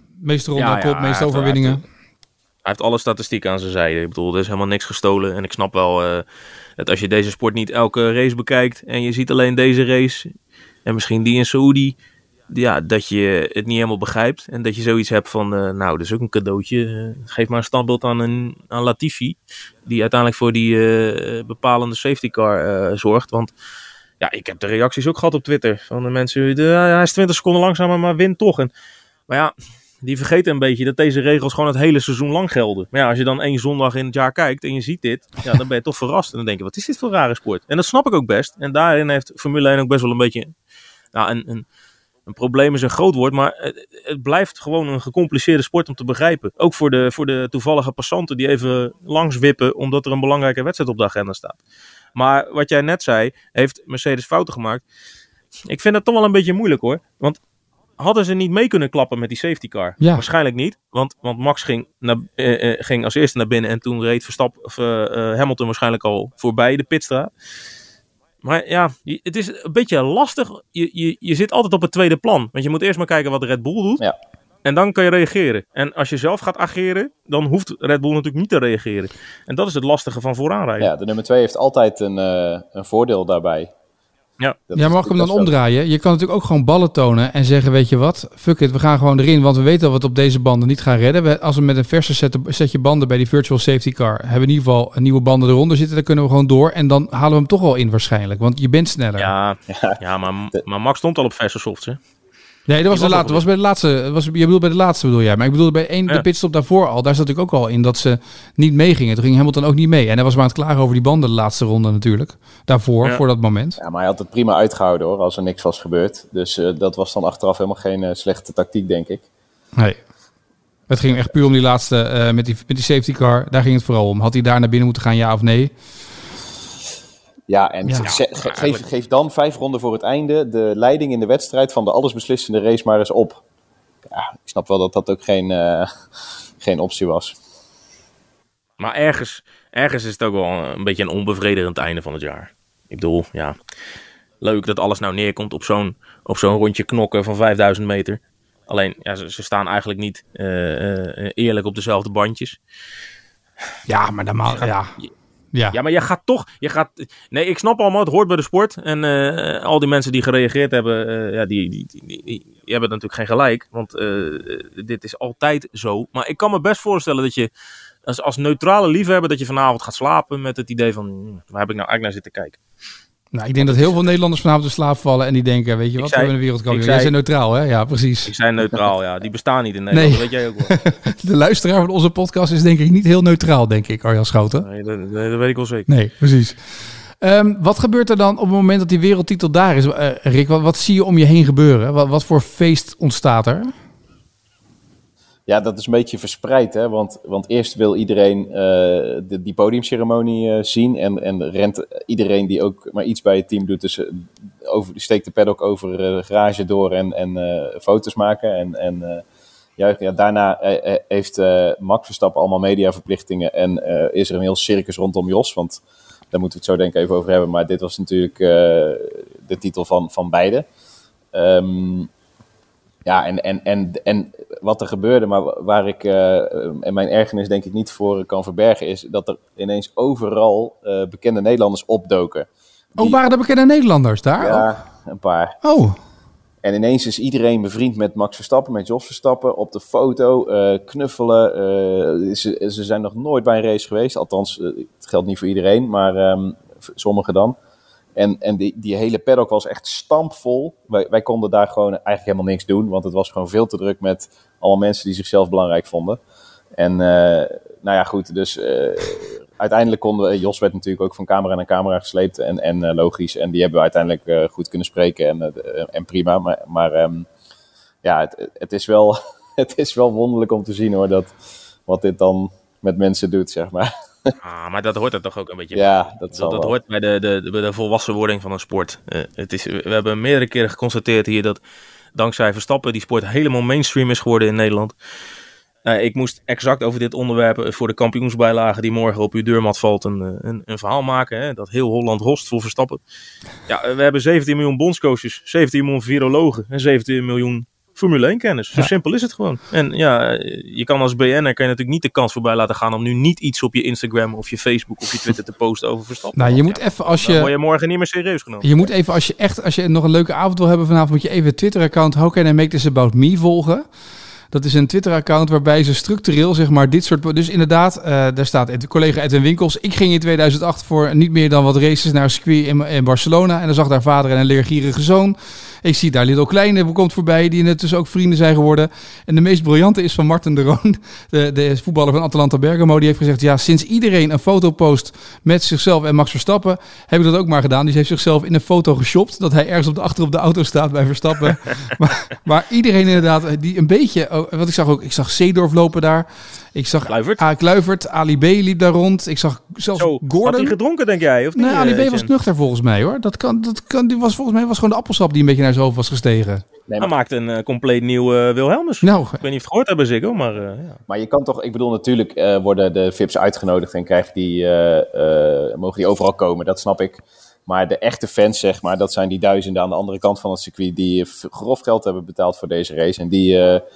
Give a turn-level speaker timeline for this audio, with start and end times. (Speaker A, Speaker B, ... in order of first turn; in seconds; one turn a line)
Speaker A: 0.2-1.8
Speaker B: 0.6-1.8
Speaker B: 2.6-6.2
Speaker B: 6.8-10.3
Speaker B: 10.9-12.0
Speaker B: 12.5-23.5
Speaker B: 24.2-28.7
Speaker B: 29.3-40.5
Speaker B: 41.1-41.7
Speaker B: 42.3-51.6
Speaker B: 52.1-54.8
Speaker B: 55.6-57.4
Speaker B: 58.0-67.3
Speaker A: 60.0-60.2
Speaker B: 68.4-74.0
Speaker B: 74.6-80.9
Speaker C: 80.8-83.7
Speaker C: 84.7-85.5
Speaker A: 84.8-99.3
Speaker B: 99.2-102.0
Speaker C: 99.7-100.0
Speaker A: 102.7-113.8
Speaker B: 102.9-103.4
Speaker C: 113.8-119.2
Speaker A: 120.9-125.7
Speaker C: 127.5-133.4
Speaker B: 128.0-128.9
Speaker C: 134.1-135.9
Speaker C: 136.6-137.3
Speaker B: 138.8-143.6
Speaker B: 144.4-152.6
Speaker A: 153.9-154.9
Speaker B: 154.5-155.1
Speaker A: 155.5-155.8
Speaker B: 155.7-167.5
Speaker B: 168.1-172.6
Speaker A: 173.3-178.8
Speaker B: 173.6-174.1
Speaker B: 176.0-177.1
Speaker B: 178.3-180.8
Speaker A: 179.9-184.7
Speaker B: 184.6-185.9
Speaker A: 185.9-186.6
Speaker A: 187.2-193.7
Speaker C: 195.5-209.2
Speaker C: 209.8-215.8
Speaker C: 216.3-220.7
Speaker C: 221.3-222.1
Speaker C: 223.1-232.5
Speaker A: 233.0-234.7
Speaker C: 233.0-233.3
Speaker C: 234.4-235.6
Speaker A: 235.6-236.0
Speaker C: 236.6-247.6
Speaker C: 248.2-256.2
Speaker C: 256.8-267.3
Speaker C: 268.0-271.3
Speaker C: 271.9-274.4
Speaker B: 274.4-281.6
Speaker C: 275.7-276.8
Speaker B: 282.1-284.9
Speaker B: 285.9-293.0
Speaker B: 293.7-308.9
Speaker A: 306.4-307.5
Speaker A: 308.6-313.9
Speaker A: 314.5-350.8
Speaker B: 347.1-347.4
Speaker B: 350.0-352.3
Speaker A: 351.6-356.6
Speaker C: 356.9-357.1
Speaker B: 357.0-361.0
Speaker A: 359.0-359.4
Speaker C: 361.1-373.8